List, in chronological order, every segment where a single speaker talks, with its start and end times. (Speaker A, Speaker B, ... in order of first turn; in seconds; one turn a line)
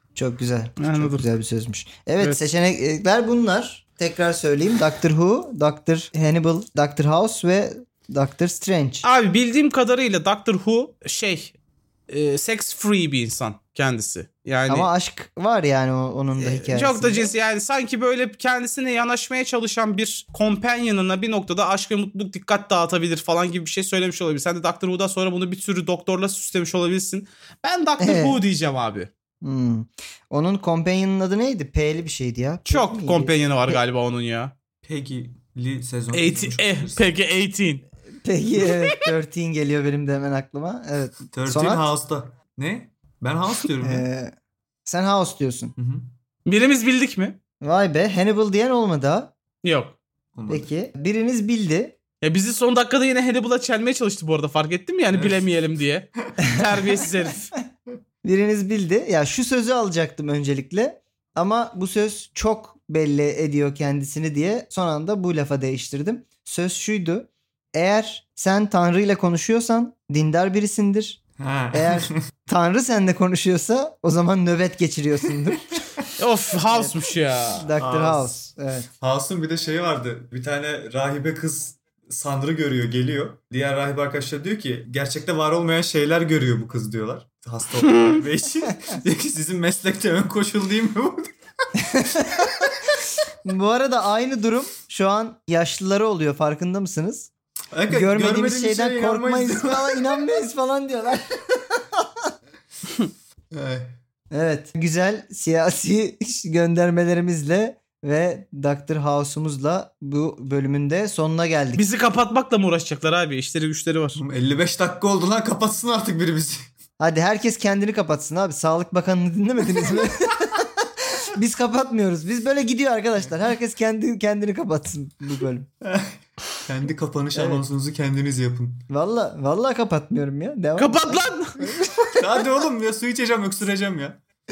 Speaker A: 0.1-9.1
Speaker B: 0.8-1.2
Speaker B: 9.0-11.5
Speaker B: 12.1-14.9
Speaker A: 14.7-17.3
Speaker B: 16.4-29.1
Speaker A: 28.0-28.4
Speaker A: 29.4-33.8
Speaker B: 32.7-34.5
Speaker C: 34.8-37.0
Speaker B: 36.1-37.8
Speaker A: 38.2-41.9
Speaker B: 38.6-38.9
Speaker C: 41.3-44.0
Speaker A: 43.8-44.3
Speaker A: 44.8-45.7
Speaker C: 45.8-46.1
Speaker B: 46.5-47.4
Speaker A: 47.6-49.3
Speaker B: 49.6-50.0
Speaker C: 50.3-50.7
Speaker A: 50.5-52.0
Speaker B: 52.2-57.5
Speaker C: 55.1-55.5
Speaker A: 58.2-71.2
Speaker C: 71.4-72.2
Speaker A: 71.7-75.8
Speaker C: 75.7-76.1
Speaker B: 76.2-77.7
Speaker A: 76.7-78.9
Speaker C: 77.8-78.3
Speaker C: 79.0-91.3
Speaker B: 87.9-88.2
Speaker A: 91.8-92.6
Speaker A: 93.4-97.3
Speaker C: 97.7-100.1
Speaker A: 97.9-102.3
Speaker C: 103.5-103.9
Speaker A: 104.3-111.8
Speaker B: 111.8-114.2
Speaker C: 114.2-116.6
Speaker A: 117.0-125.7
Speaker C: 125.8-128.8
Speaker A: 127.3-127.6
Speaker A: 128.9-132.1
Speaker B: 130.8-131.5
Speaker C: 132.1-134.2